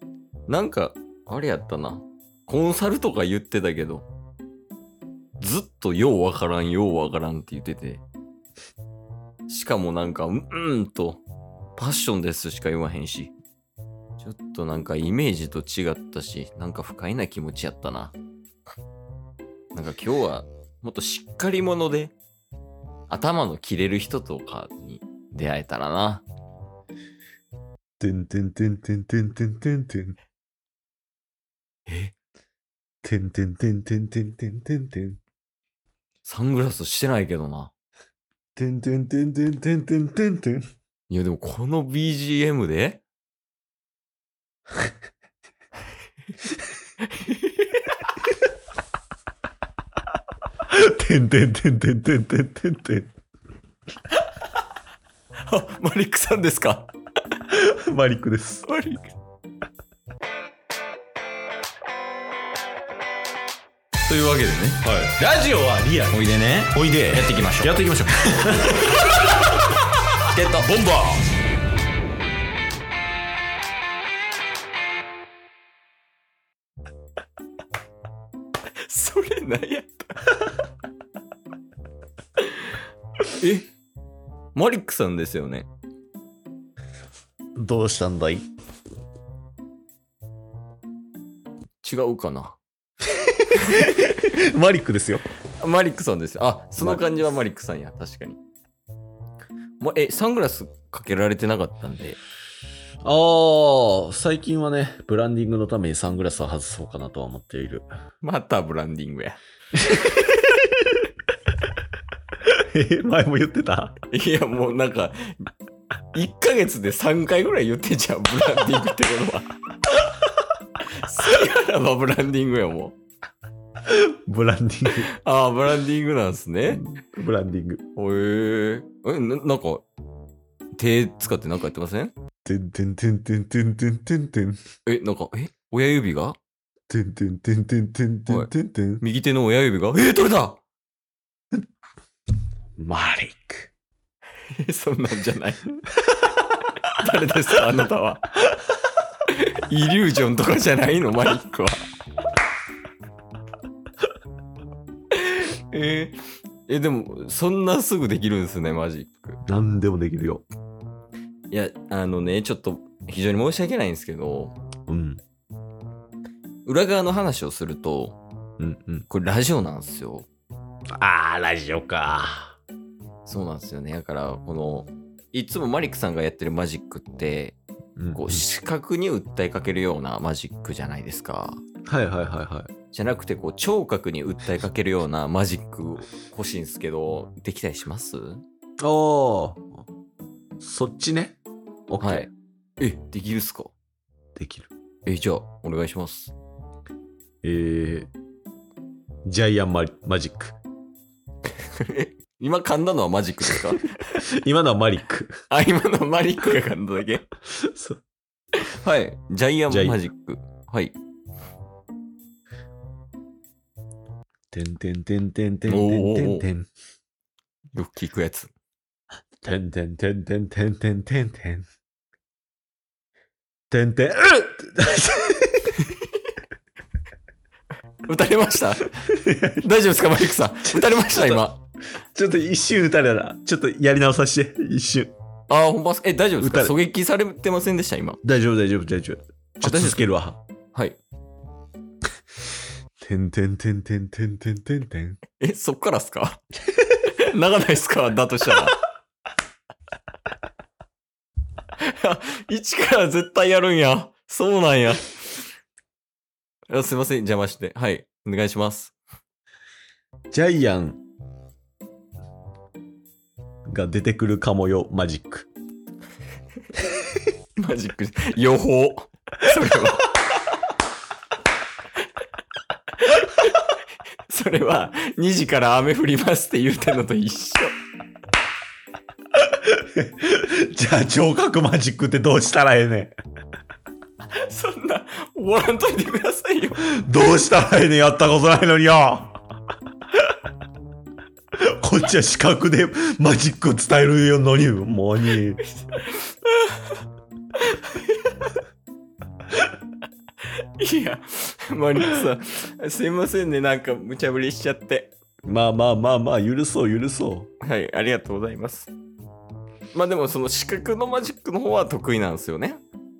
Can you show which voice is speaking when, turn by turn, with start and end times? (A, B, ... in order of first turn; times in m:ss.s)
0:00.5-0:04.1 A
0:05.4-0:08.0 A
0:09.5-0:11.2 A
0:11.8-0:13.3 A
0:14.2-0:18.1 A
0:19.7-0:22.1 A
0:23.1-0:26.2 A
0:28.0-0:30.2 B
0:31.9-0:32.1 A
0:33.0-0:35.2 B
0:36.2-0:37.7 A
0:38.6-0:40.6 B
0:41.1-0:43.0 A
0:47.0-0:48.0 A
0:50.6-0:53.1 B
0:55.5-0:56.9 A
0:57.5-0:58.6 B
0:58.6-0:59.1 A
1:04.0-1:04.9 A
1:04.8-1:06.1 B
1:06.1-1:07.8 A
1:06.7-1:09.0 B
1:08.7-1:09.1 A
1:10.2-1:10.7 A
1:10.6-1:11.2 B
1:18.8-1:20.5 A
1:22.4-1:23.7 A
1:24.5-1:25.7 A
1:27.6-1:28.4 B
1:31.8-1:32.6 A
1:33.1-1:35.2 B
1:35.6-1:38.4 A
1:39.8-1:42.2 A
1:43.0-1:47.8 B
1:48.2-1:50.4 A
1:52.4-1:54.0 B
1:54.1-1:55.5 A
1:56.1-1:59.5 A
2:00.8-2:02.9 A
2:03.8-2:05.1 B
2:04.9-2:06.8 A
2:06.7-2:07.8 B
2:08.0-2:09.8 A
2:10.8-2:12.1 A
2:12.4-2:14.6 B
2:14.8-2:16.4 A
2:16.9-2:19.0 B
2:18.3-2:20.6 A
2:22.8-2:23.7 B
2:24.5-2:25.7 A
2:26.4-2:28.4 A
2:29.2-2:31.8 A
2:35.1-2:39.4 A
2:39.4-2:40.4 B
2:41.5-2:44.6 A
2:44.9-2:45.2 B
2:46.6-2:48.2 A
2:48.6-2:49.1 B
2:49.1-2:50.3 A
2:50.9-2:52.6 B
2:53.2-2:57.6 A
2:58.0-2:58.4 B
2:58.1-3:01.6 A
3:01.9-3:02.7 B
3:02.9-3:08.4 A
3:08.8-3:09.8 B
3:10.6-3:12.3 B
3:12.0-3:13.7 A
3:14.4-3:14.7 B
3:15.0-3:16.3 A
3:17.4-3:18.1 B
3:19.2-3:20.6 B
3:21.7-3:24.2 A
3:24.1-3:25.3 B
3:25.5-3:27.2 A
3:27.5-3:28.0 B
3:28.6-3:30.9 A
3:29.7-3:30.0 B
3:34.5-3:36.7 B
3:35.7-3:36.4 A
3:37.7-3:38.5 A
3:39.4-3:41.6 B
3:43.7-3:45.9 B
3:48.0-3:49.0 A
3:48.9-3:49.7 B
3:49.6-3:51.6 A
3:50.6-3:51.4 B
3:52.1-3:55.1 B
3:55.5-3:58.2 A
3:56.4-3:56.7 B
3:58.2-4:00.4 B
3:59.6-4:00.0 A
4:00.7-4:01.0 A
4:03.0-4:05.2 B
4:05.4-4:08.8 A
4:11.8-4:15.4 A
4:16.7-4:18.9 A
4:20.3-4:21.0 B
4:23.7-4:25.5 B
4:26.8-4:27.2 B
4:27.6-4:30.2 A
4:33.0-4:33.8 A
4:34.3-4:37.8 A
4:39.4-4:43.1 B
4:44.3-4:46.9 A
4:46.8-4:49.4 B
4:51.6-4:55.6 B
4:55.7-4:57.0 A
4:57.6-4:58.4 A
5:00.4-5:05.1 A
5:05.4-5:07.5 B
5:07.6-5:08.9 A
5:09.9-5:12.8 A